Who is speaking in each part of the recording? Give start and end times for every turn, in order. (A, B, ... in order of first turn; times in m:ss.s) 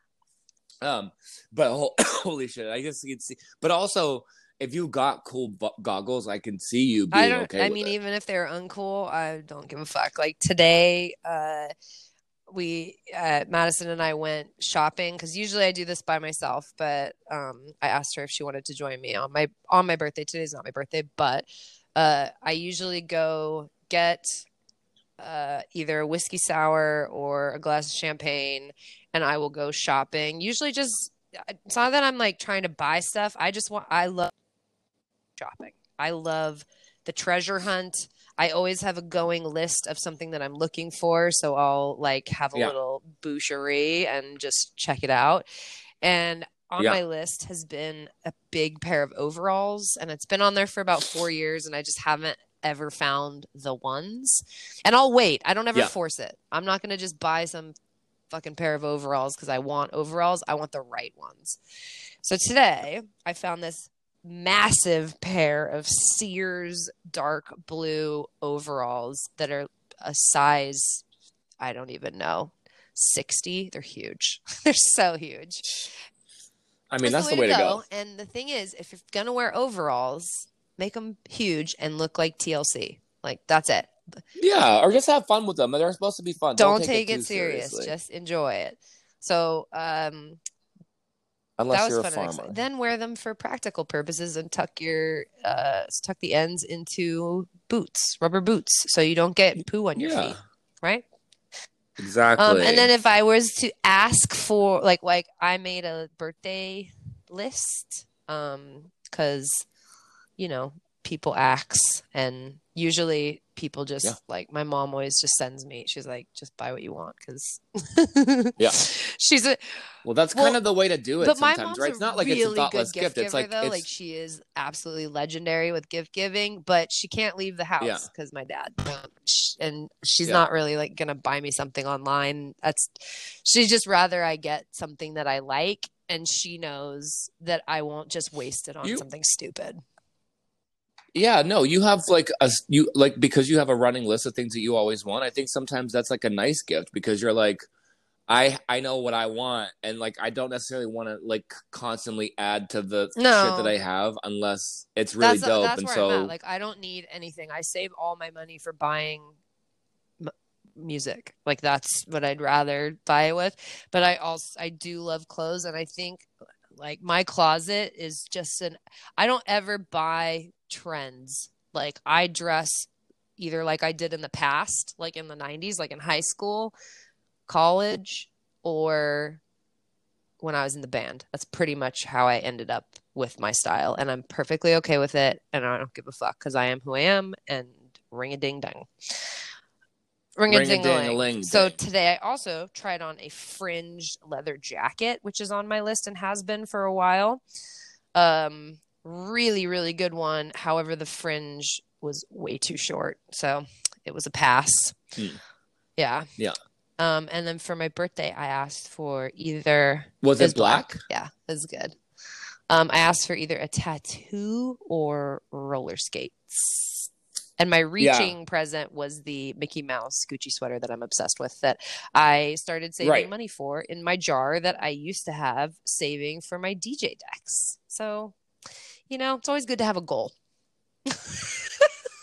0:00.8-0:07.9 A
0:07.1-0:11.7 B
0:12.5-0:24.4 B
0:25.2-0:34.3 B
0:35.4-0:45.4 B
0:46.0-0:57.7 B
0:58.3-1:01.6 B
1:02.2-1:11.0 B
1:11.6-1:15.8 B
1:16.9-1:17.8 A
1:17.0-1:24.2 B
1:24.4-1:27.9 A
1:26.6-1:30.4 B
1:31.6-1:32.6 A
1:31.7-1:41.0 B
1:40.0-1:40.4 A
1:42.0-1:42.9 A
1:42.4-1:49.6 B
1:50.4-1:59.8 B
2:00.0-2:03.8 A
2:00.3-2:00.6 B
2:01.2-2:19.8 B
2:07.8-2:08.1 A
2:21.1-2:27.6 A
2:28.3-2:36.3 A
2:33.2-2:33.7 B
2:35.2-2:39.3 B
2:40.2-2:56.7 B
2:57.5-2:59.4 B
3:00.4-3:09.2 B
3:10.4-3:17.4 B
3:10.5-3:11.8 A
3:18.1-3:25.0 B
3:26.0-3:26.3 B
3:27.0-3:32.0 B
3:30.2-3:31.0 A
3:32.7-3:48.3 B
3:38.0-3:38.3 A
3:43.0-3:43.3 A
3:49.1-3:50.3 B
3:51.1-3:51.9 B